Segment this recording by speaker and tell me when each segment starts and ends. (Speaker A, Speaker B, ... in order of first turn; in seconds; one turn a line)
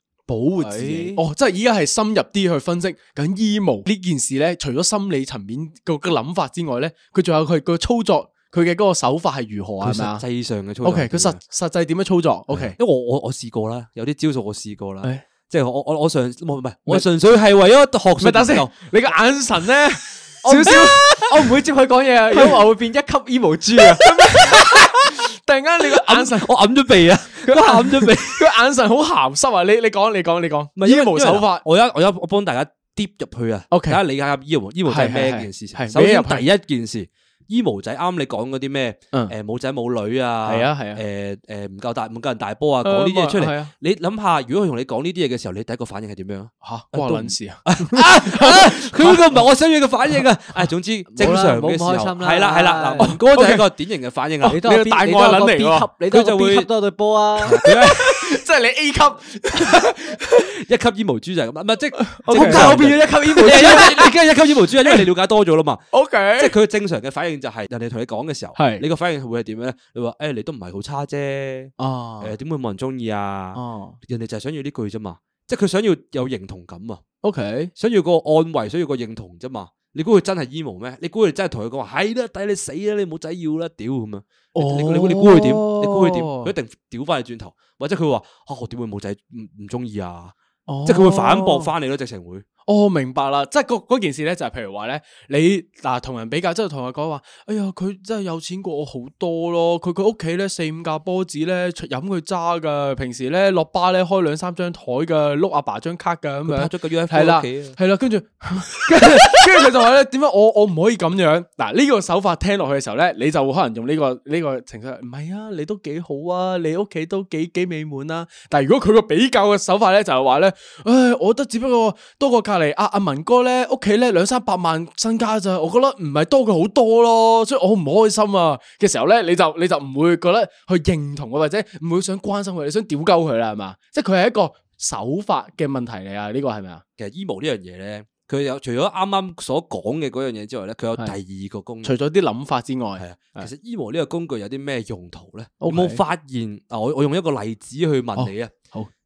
Speaker A: 0.3-10.2
Speaker B: 0.6-1.2
Speaker C: 9.8-11.4
Speaker A: 10.8-12.8
Speaker C: 12.5-18.7
Speaker A: 18.2-21.5
Speaker B: 20.4-24.1
Speaker A: 22.3-22.6
Speaker A: 23.9-26.5
Speaker C: 25.9-28.4
Speaker A: 27.4-31.6
Speaker C: 30.8-54.6
Speaker A: 33.7-34.0
Speaker A: 34.9-36.5
Speaker A: 40.5-41.0
Speaker A: 42.8-43.7
Speaker A: 46.6-49.4
Speaker B: 51.1-53.1
Speaker A: 53.0-53.7
Speaker A: 54.4-55.9
Speaker B: 54.5-57.6
Speaker C: 56.1-56.7
Speaker C: 57.4-58.4
Speaker A: 57.6-60.5
Speaker C: 60.4-65.8
Speaker A: 62.0-64.1
Speaker B: 62.3-64.0
Speaker A: 64.8-65.1
Speaker A: 65.9-66.6
Speaker C: 66.4-77.0
Speaker A: 68.6-68.8
Speaker A: 71.8-72.3
Speaker A: 73.5-74.0
Speaker A: 77.2-77.7
Speaker C: 77.8-90.3
Speaker A: 84.5-86.5
Speaker A: 90.7-91.7
Speaker C: 90.9-92.5
Speaker A: 92.7-136.8
Speaker C: 106.5-107.8
Speaker C: 137.0-141.9
Speaker A: 141.8-143.5
Speaker C: 143.0-148.5
Speaker A: 145.6-146.0
Speaker A: 148.2-148.9